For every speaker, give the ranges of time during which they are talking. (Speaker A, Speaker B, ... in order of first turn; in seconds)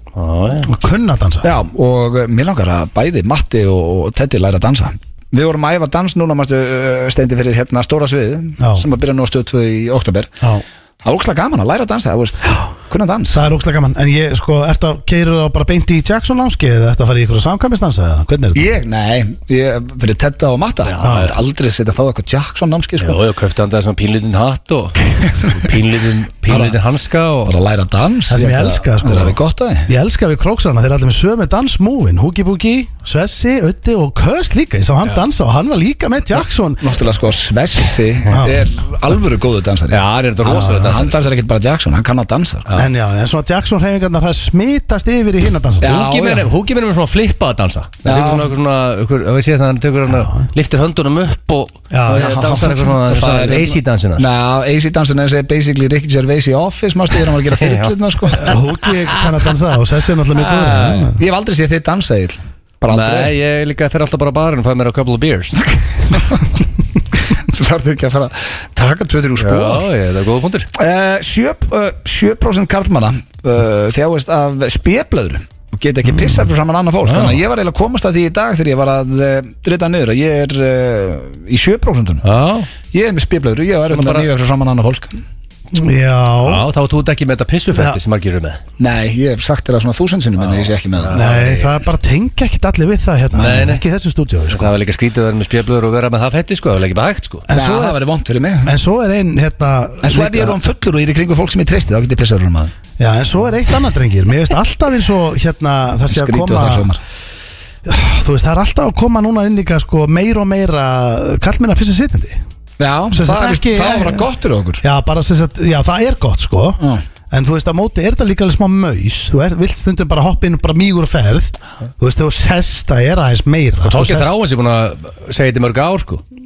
Speaker A: 0.1-0.7, 20.9-21.3, 23.0-27.5, 39.9-41.2, 45.8-54.3, 57.5-58.6, 60.4-61.1, 62.9-65.7, 69.4-70.7, 77.0-77.4, 82.2-82.7, 83.9-84.3, 86.4-88.6, 90.6-91.7, 93.4-93.8, 94.5-97.5, 123.8-126.2
Speaker B: 0.7-1.5, 8.6-8.9, 13.3-18.7, 21.0-21.4, 28.3-36.8, 38.3-38.6, 40.5-40.9, 42.7-46.0, 50.1-50.5, 51.9-52.6, 58.3-61.2, 85.7-86.7, 87.7-88.0, 91.1-94.7, 97.5-98.0, 98.7-100.6, 103.0-106.9, 107.8-112.4, 113.1-114.3, 114.8-124.3
Speaker C: 1.4-10.3, 11.0-13.4, 18.6-23.2, 26.5-26.8, 27.4-29.9, 36.8-42.7, 45.8-46.5, 48.0-48.5, 52.1-58.5, 61.2-63.3, 66.1-66.5, 67.2-69.9, 70.7-82.2, 82.9-85.2, 88.8-91.2, 97.5-98.7, 100.0-102.7, 106.1-107.0, 112.8-114.8, 116.8-117.0